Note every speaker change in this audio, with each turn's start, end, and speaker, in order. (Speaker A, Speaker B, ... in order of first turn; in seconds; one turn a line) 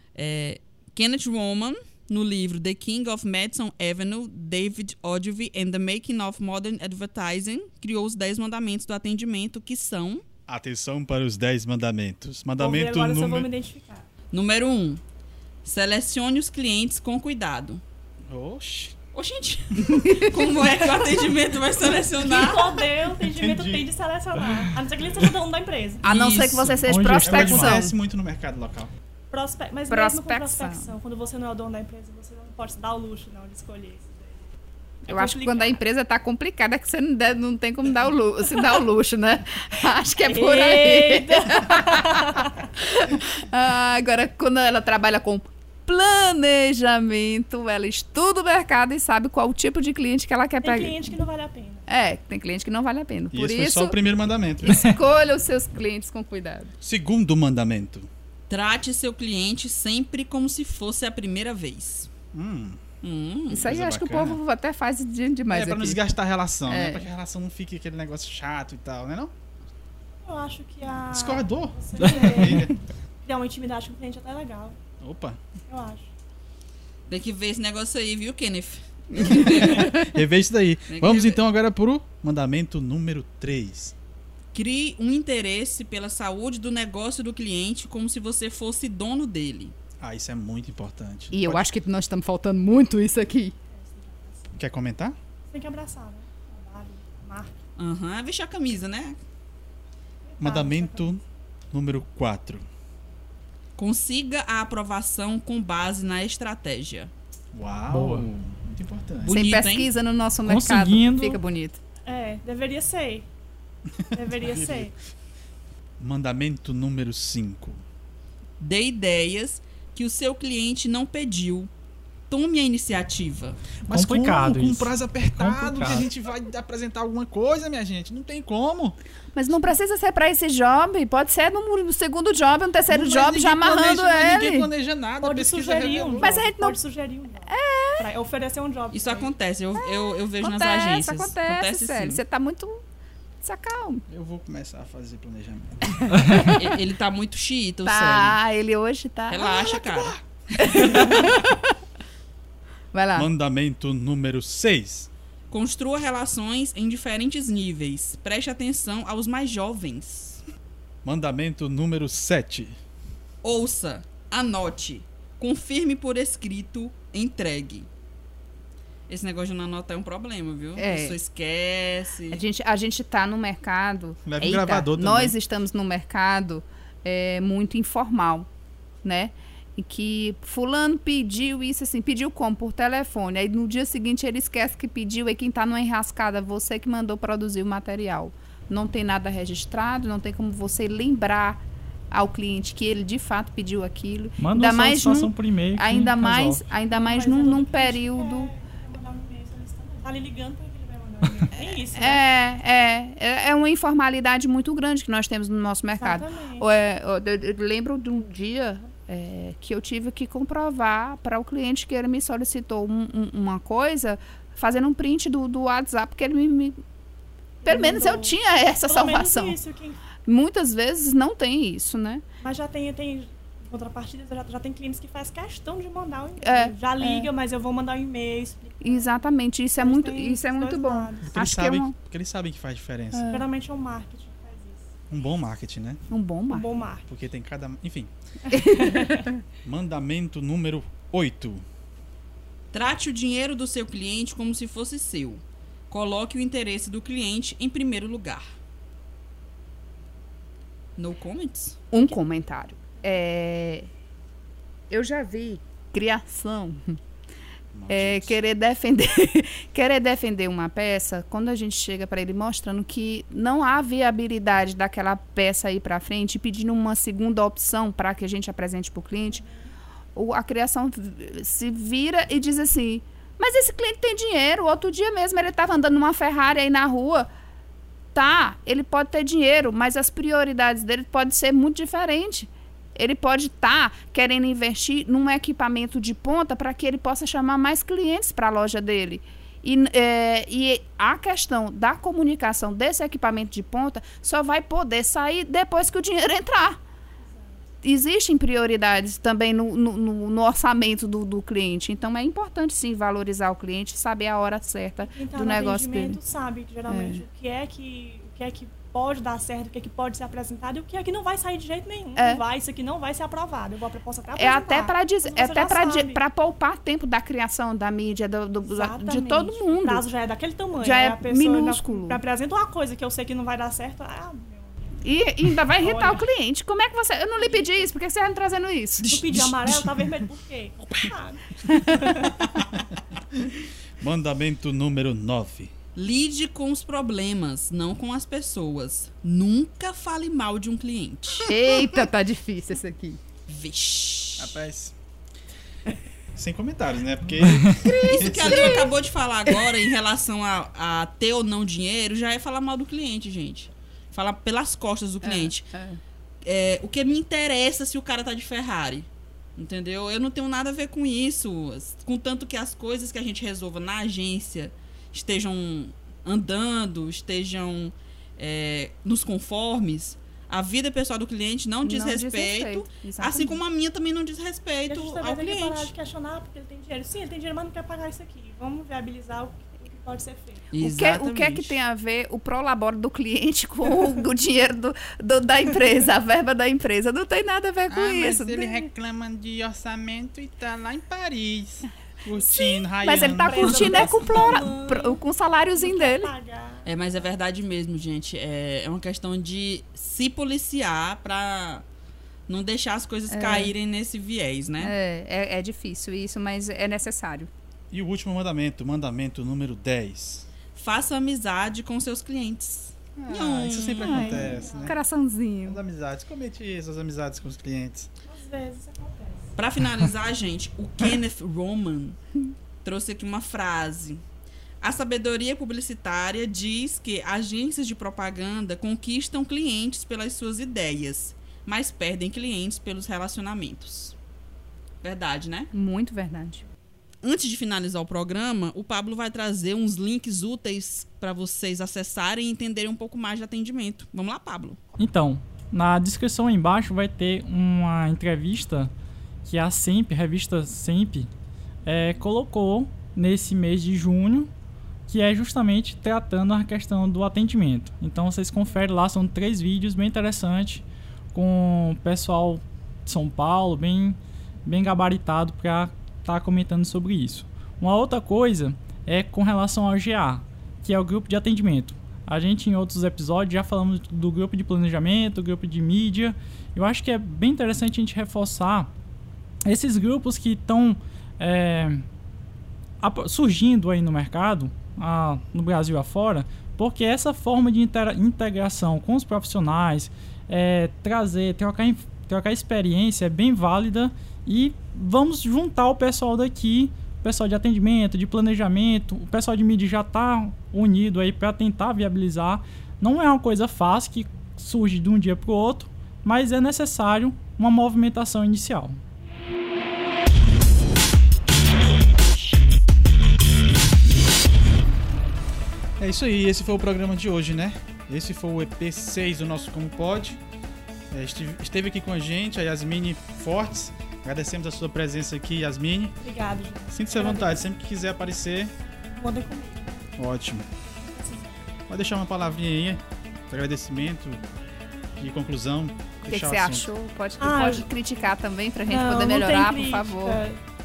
Speaker A: 0.1-10.2
Speaker B: 10.5-13.5
Speaker C: 12.6-14.1
Speaker A: 14.3-15.0
Speaker A: 15.6-17.8
Speaker B: 18.3-18.9
Speaker A: 19.1-22.9
Speaker D: 20.0-20.5
Speaker C: 22.1-26.0
Speaker B: 23.3-23.9
Speaker A: 26.0-26.8
Speaker D: 26.0-27.9
Speaker E: 26.9-27.9
Speaker B: 27.2-28.9
Speaker C: 29.3-34.5
Speaker D: 29.9-30.9
Speaker C: 35.0-35.8
Speaker D: 35.1-51.1
Speaker C: 40.2-42.6
Speaker C: 50.6-51.9
Speaker D: 51.9-54.0
Speaker B: 53.3-55.0
Speaker D: 54.6-56.7
Speaker B: 56.8-58.1
Speaker A: 58.5-62.1
Speaker B: 62.3-62.8
Speaker A: 63.0-63.7
Speaker D: 63.5-66.0
Speaker B: 63.5-64.4
Speaker B: 65.5-69.3
Speaker D: 66.7-67.1
Speaker C: 70.2-74.8
Speaker B: 71.1-72.8
Speaker B: 75.0-75.4
Speaker C: 75.7-76.1
Speaker A: 77.1-80.1
Speaker B: 79.1-83.9
Speaker A: 80.9-81.4
Speaker A: 84.5-89.7
Speaker B: 90.0-91.7
Speaker D: 91.3-93.5
Speaker C: 93.7-94.6
Speaker B: 94.6-95.2
Speaker C: 95.5-97.5
Speaker A: 97.8-99.2
Speaker C: 100.2-101.1
Speaker B: 100.4-102.6
Speaker A: 103.8-107.1
Speaker B: 107.5-109.4
Speaker E: 107.9-108.2
Speaker A: 109.2-109.9
Speaker D: 109.3-111.8
Speaker E: 110.4-111.4
Speaker C: 112.0-113.2
Speaker B: 114.0-114.9
Speaker C: 114.1-114.9
Speaker B: 116.0-117.8
Speaker A: 118.6-121.7
Speaker A: 122.3-123.6
Speaker B: 123.8-129.0
Speaker E: 123.9-126.1
Speaker D: 129.3-134.7
Speaker B: 132.9-136.4
Speaker C: 135.2-139.3
Speaker D: 136.2-136.8
Speaker D: 137.5-138.1
Speaker A: 138.9-142.2
Speaker D: 139.8-142.8
Speaker D: 143.4-144.0
Speaker B: 144.1-146.0
Speaker D: 146.2-146.6
Speaker A: 146.3-148.4
Speaker D: 147.8-151.7
Speaker A: 149.3-150.2
Speaker A: 150.7-151.0
Speaker D: 152.9-153.3
Speaker B: 153.1-155.1
Speaker A: 155.5-160.4
Speaker B: 161.0-162.8
Speaker A: 163.4-167.9
Speaker A: 169.1-172.4
Speaker D: 170.8-171.2
Speaker D: 172.3-178.5
Speaker B: 174.2-175.3
Speaker D: 179.0-198.5
Speaker E: 194.4-196.7
Speaker C: 196.9-202.2
Speaker D: 201.9-216.8
Speaker C: 205.9-206.7
Speaker C: 217.6-220.0
Speaker D: 217.7-219.6
Speaker D: 220.2-222.2
Speaker C: 222.4-229.2
Speaker D: 226.4-227.3
Speaker D: 228.8-231.9
Speaker C: 229.8-231.3
Speaker B: 231.3-233.3
Speaker D: 233.1-233.5
Speaker C: 233.3-234.9
Speaker B: 235.1-236.0
Speaker D: 236.1-236.7
Speaker C: 236.5-237.1
Speaker B: 237.1-238.1
Speaker D: 238.5-239.4
Speaker C: 238.6-239.2
Speaker B: 239.6-241.6
Speaker A: 242.7-248.4
Speaker A: 251.0-251.8
Speaker D: 251.9-253.9
Speaker D: 254.9-257.0
Speaker B: 257.7-258.4
Speaker D: 257.9-269.4
Speaker C: 269.4-269.7
Speaker D: 270.1-277.3
Speaker D: 278.1-296.8
Speaker C: 297.2-297.6
Speaker D: 297.8-306.2
Speaker C: 305.0-316.2
Speaker D: 306.9-307.2
Speaker D: 312.1-312.4
Speaker D: 314.4-320.0
Speaker C: 318.6-324.8
Speaker D: 320.8-322.2
Speaker D: 325.0-329.5
Speaker C: 325.8-326.2
Speaker C: 327.4-327.9
Speaker C: 329.0-332.5
Speaker B: 329.4-330.0
Speaker D: 331.7-332.1
Speaker B: 333.2-333.5
Speaker B: 334.0-335.7
Speaker A: 335.9-341.5
Speaker D: 341.4-343.2
Speaker A: 343.5-344.6
Speaker B: 344.4-344.9
Speaker B: 346.4-348.9
Speaker D: 347.8-348.9
Speaker A: 347.8-355.7
Speaker D: 349.5-349.8
Speaker D: 355.2-356.0
Speaker A: 356.4-375.9
Speaker D: 371.8-373.6
Speaker C: 374.9-380.7
Speaker A: 380.7-381.8
Speaker D: 380.8-388.9
Speaker B: 387.9-394.2
Speaker D: 392.3-396.3
Speaker C: 393.1-395.2
Speaker A: 393.9-394.6
Speaker C: 395.7-396.9
Speaker A: 396.8-401.8
Speaker A: 402.5-404.9
Speaker D: 403.3-403.7
Speaker D: 404.8-407.5
Speaker B: 407.9-410.5
Speaker A: 410.7-414.6
Speaker B: 413.2-415.0
Speaker C: 414.0-414.9
Speaker D: 414.8-415.8
Speaker B: 415.6-418.1
Speaker C: 418.2-419.5
Speaker A: 419.6-422.1
Speaker A: 422.8-424.2
Speaker A: 424.8-434.1
Speaker A: 435.0-435.7
Speaker D: 435.7-436.6
Speaker A: 437.2-444.8
Speaker E: 445.0-448.9
Speaker E: 449.4-451.3
Speaker E: 451.8-454.5
Speaker E: 455.1-478.9
Speaker E: 479.6-482.0
Speaker E: 483.0-509.0
Speaker B: 516.0-520.4
Speaker B: 521.1-526.2
Speaker C: 526.2-527.6
Speaker B: 526.9-528.7
Speaker C: 529.1-530.1
Speaker B: 530.2-530.7
Speaker C: 530.8-531.7
Speaker B: 531.9-534.4
Speaker B: 535.2-536.9
Speaker D: 536.3-540.4
Speaker C: 537.4-537.9
Speaker C: 538.9-540.6